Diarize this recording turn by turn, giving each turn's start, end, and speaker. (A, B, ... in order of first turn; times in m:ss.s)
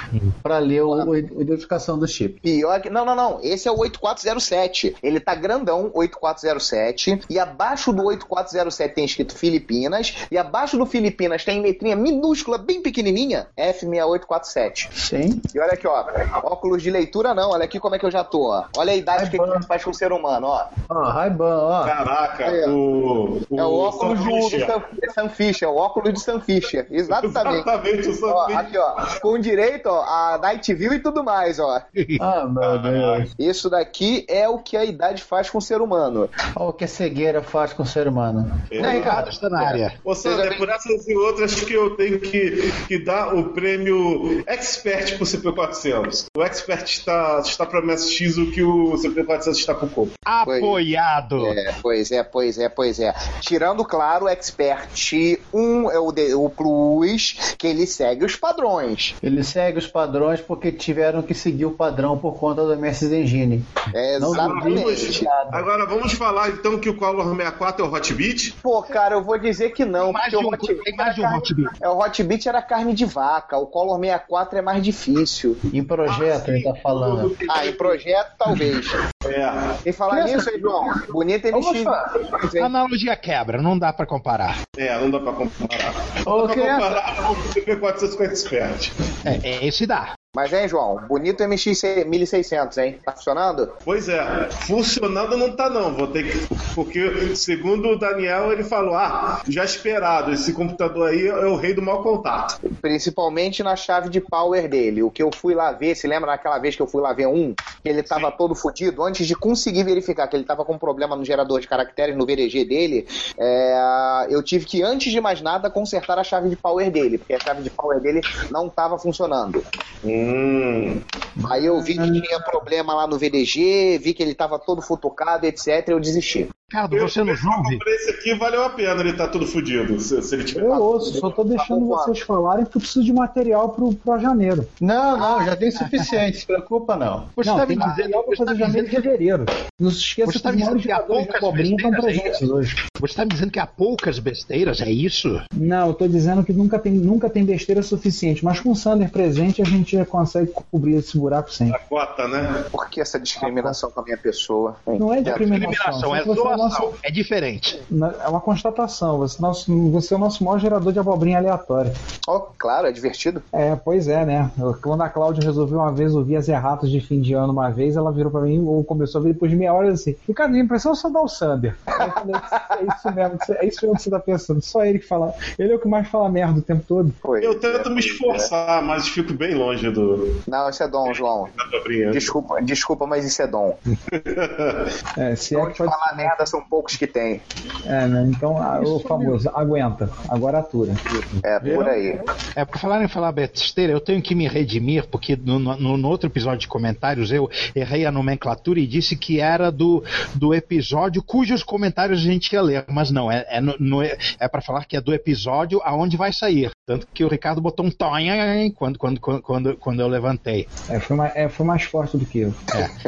0:00.4-0:02.4 A
0:02.4-0:14.9 B
0:15.0-0:15.4 A
0:15.5-0:20.7 B
0:19.1-0:19.7 A
0:20.9-0:22.0 A
0:21.8-0:24.8 C
0:22.4-0:22.8 B
0:23.6-0:27.7 B
0:27.1-0:29.2 C
0:28.3-0:31.8 B
0:32.2-0:33.3 A
0:32.6-0:33.3 C
0:33.4-0:36.3 B
0:36.6-0:39.3 A
0:38.7-0:39.3 C
0:38.8-0:40.0 D
0:39.6-0:40.6 B
0:40.0-0:50.1 C
0:50.3-0:51.6 D
0:50.4-0:50.8 B
0:51.4-0:59.2 B
0:59.2-1:05.7 A
1:03.9-1:05.3 B
1:04.3-1:08.6 C
1:08.6-1:15.6 B
1:10.0-1:11.7 D
1:15.7-1:17.3 A
1:16.1-1:18.0 C
1:17.5-1:19.0 B
1:19.1-1:19.8 C
1:19.8-1:22.7 B
1:20.1-1:20.7 A
1:21.5-1:22.2 A
1:22.6-1:24.6 D
1:24.8-1:28.9 C
1:26.3-1:27.0 A
1:29.2-1:30.1 D
1:30.3-1:33.7 B
1:33.8-1:42.6 C
1:42.7-1:59.6 B
2:00.0-2:01.0 C
2:01.4-2:06.5 B
2:01.5-2:02.2 A
2:06.7-2:07.8 D
2:06.9-2:11.2 C
2:10.6-2:14.7 E
2:11.2-2:12.1 B
2:14.8-2:17.3 A
2:17.4-2:19.1 D
2:17.4-2:22.8 E
2:20.3-2:22.4 D
2:23.0-2:25.4 D
2:25.6-2:31.8 E
2:31.7-2:32.7 C
2:32.7-2:35.5 B
2:33.4-2:33.8 E
2:35.0-2:36.9 E
2:35.2-2:37.8 D
2:37.9-2:41.9 E
2:42.3-2:43.4 B
2:43.5-2:57.2 E
2:57.2-2:58.5 B
2:57.4-3:00.4 C
3:00.5-3:01.5 B
3:01.1-3:02.3 C
3:02.1-3:03.8 B
3:04.1-3:04.9 C
3:05.2-3:06.4 E
3:05.5-3:07.4 B
3:07.9-3:11.0 E
3:08.8-3:09.4 A
3:11.4-3:12.2 B
3:11.6-3:12.0 C
3:12.6-3:30.7 D
3:30.9-3:32.8 E